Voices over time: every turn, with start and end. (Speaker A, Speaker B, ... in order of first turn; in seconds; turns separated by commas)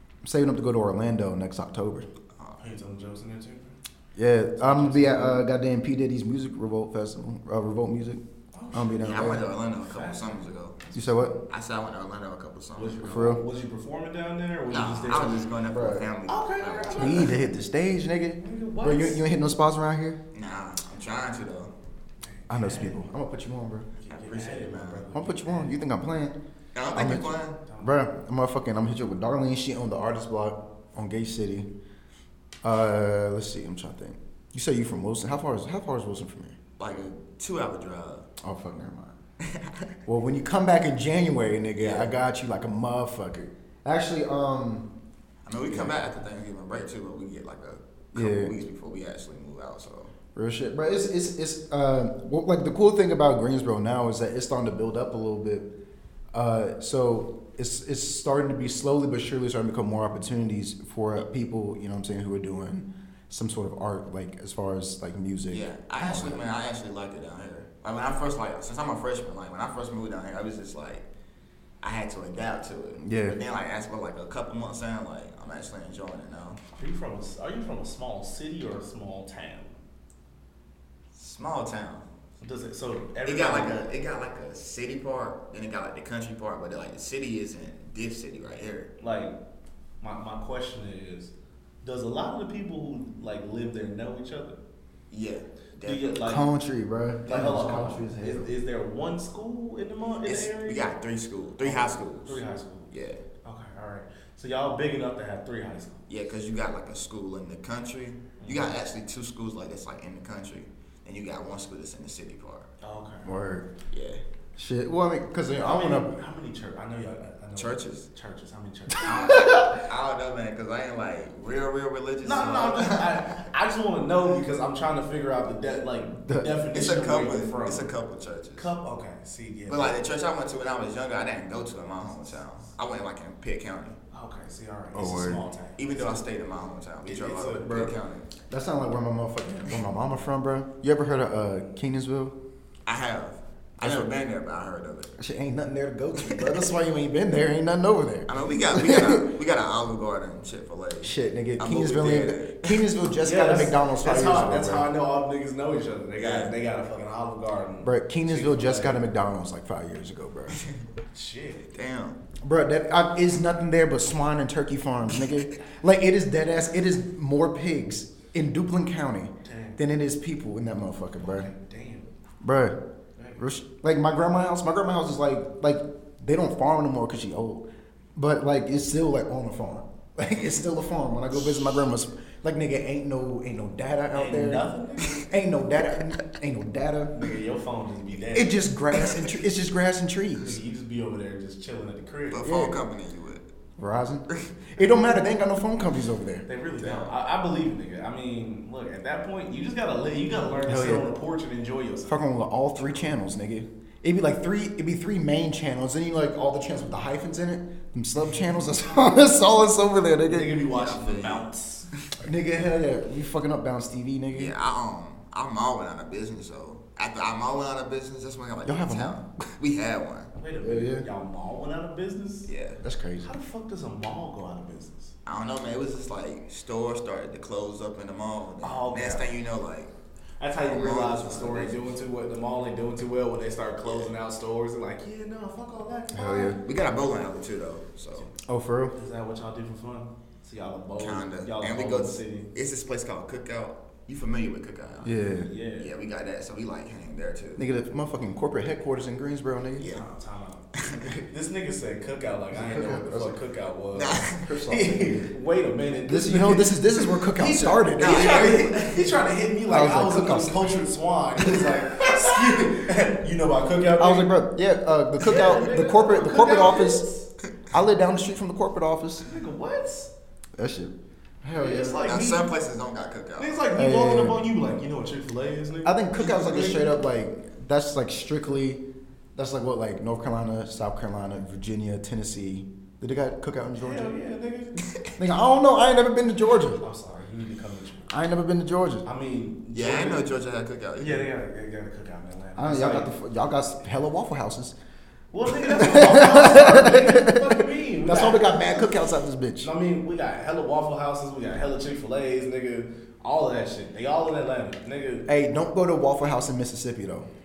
Speaker A: 0.2-2.1, Speaker B: 2.6-3.7, Speaker A: 4.2-8.2, Speaker B: 4.6-5.4, Speaker B: 8.5-11.3, Speaker A: 8.7-9.4, Speaker C: 9.0-10.8, Speaker A: 10.9-11.3, Speaker C: 11.5-13.0, Speaker B: 12.8-15.5, Speaker A: 13.0-13.4, Speaker C: 14.7-17.3, Speaker A: 15.7-16.1, Speaker B: 16.3-17.3, Speaker A: 16.9-20.2, Speaker B: 18.4-19.2, Speaker C: 20.3-21.7, Speaker B: 22.2-23.0, Speaker A: 22.5-23.9, Speaker B: 24.0-25.8, Speaker C: 24.1-25.0, Speaker A: 25.1-26.4, Speaker C: 26.7-27.6, Speaker A: 26.9-31.7, Speaker B: 26.9-27.9, Speaker A: 32.6-36.5, Speaker C: 36.8-38.3, Speaker A: 38.4-39.1, Speaker C: 39.4-39.9, Speaker A: 40.0-44.9, Speaker C: 41.8-42.1, Speaker C: 45.4-50.1, Speaker A: 48.1-48.5, Speaker A: 50.3-55.7, Speaker A: 56.3-66.4, Speaker C: 65.5-71.1, Speaker C: 71.8-76.6, Speaker A: 73.0-73.4, Speaker B: 76.8-79.7, Speaker C: 81.1-82.0, Speaker B: 82.4-83.7, Speaker C: 83.2-88.9, Speaker B: 89.0-89.3, Speaker B: 90.0-91.3, Speaker B: 91.8-94.6, Speaker C: 95.1-96.2, Speaker B: 95.8-96.5, Speaker A: 96.2-98.5, Speaker B: 97.2-100.9, Speaker C: 100.2-103.2, Speaker B: 101.6-102.9, Speaker B: 103.4-106.0, Speaker C: 106.1-112.7, Speaker B: 108.4-108.7, Speaker B: 112.8-113.4, Speaker A: 113.2-113.7, Speaker C: 113.9-114.2, Speaker A: 114.5-116.1, Speaker B: 115.5-119.5, Speaker C: 117.5-118.1, Speaker C: 119.0-123.3, Speaker A: 119.1-119.7, Speaker B: 122.2-127.9, Speaker A: 126.2-126.6, Speaker C: 126.7-128.7, Speaker B: 128.5-130.0, Speaker C: 129.7-134.0, Speaker B: 134.1-136.2, Speaker A: 134.9-135.4, Speaker C: 135.8-138.3, Speaker B: 137.0-137.7, Speaker A: 137.6-142.3, Speaker C: 142.8-145.1, Speaker A: 143.8-144.1, Speaker A: 145.2-149.3, Speaker C: 146.2-146.6, Speaker C: 148.3-152.8, Speaker A: 151.0-154.9, Speaker B: 153.2-159.0, Speaker C: 156.2-156.5, Speaker A: 157.8-160.6, Speaker B: 161.1-161.7, Speaker C: 161.7-162.2, Speaker A: 162.4-171.5, Speaker B: 169.4-169.8, Speaker B: 171.2-172.1, Speaker A: 172.4-172.8, Speaker B: 173.2-173.4, Speaker A: 173.4-184.6, Speaker B: 184.1-185.2, Speaker A: 185.2-187.1, Speaker B: 187.1-188.6, Speaker A: 188.3-190.6, Speaker B: 190.4-192.5, Speaker C: 192.3-193.5, Speaker A: 192.4-192.8, Speaker A: 193.8-196.4, Speaker B: 196.4-202.2, Speaker C: 196.8-197.1, Speaker A: 200.6-201.1, Speaker A: 202.1-210.6, Speaker B: 210.2-211.9, Speaker C: 210.7-211.4, Speaker A: 212.2-214.5, Speaker C: 214.3-220.3, Speaker A: 218.6-219.3, Speaker B: 220.3-222.5, Speaker A: 220.6-221.1, Speaker C: 222.4-222.8, Speaker A: 222.8-223.2, Speaker B: 223.2-225.1, Speaker C: 225.2-229.9, Speaker B: 228.6-229.3, Speaker B: 230.4-236.6, Speaker C: 230.6-231.8, Speaker C: 233.8-234.1, Speaker A: 236.1-236.6, Speaker C: 236.6-238.3, Speaker A: 238.4-238.9, Speaker B: 238.9-242.5, Speaker C: 241.0-245.2, Speaker A: 245.0-245.5, Speaker B: 245.4-245.9, Speaker C: 245.8-247.7, Speaker A: 247.6-249.9, Speaker C: 249.8-250.0, Speaker B: 249.8-264.3, Speaker C: 250.8-251.1, Speaker A: 252.5-253.3, Speaker C: 253.9-254.4, Speaker A: 254.4-255.3, Speaker A: 256.1-258.9, Speaker C: 258.0-258.9, Speaker A: 259.7-260.7, Speaker A: 264.0-267.0, Speaker B: 265.2-267.3, Speaker A: 267.7-269.3, Speaker B: 269.2-270.1, Speaker A: 270.6-272.0, Speaker B: 271.6-272.5, Speaker C: 272.0-273.5, Speaker B: 273.4-276.9, Speaker A: 273.8-274.4, Speaker A: 275.8-278.8, Speaker A: 279.4-284.1, Speaker B: 283.8-284.8, Speaker A: 285.2-286.8, Speaker B: 286.8-288.1, Speaker A: 288.1-289.1, Speaker B: 289.0-290.3, Speaker C: 289.7-291.3, Speaker B: 291.0-293.1, Speaker A: 292.6-294.8, Speaker B: 295.3-299.0, Speaker A: 295.4-299.7, Speaker B: 299.6-305.2, Speaker A: 305.3-307.3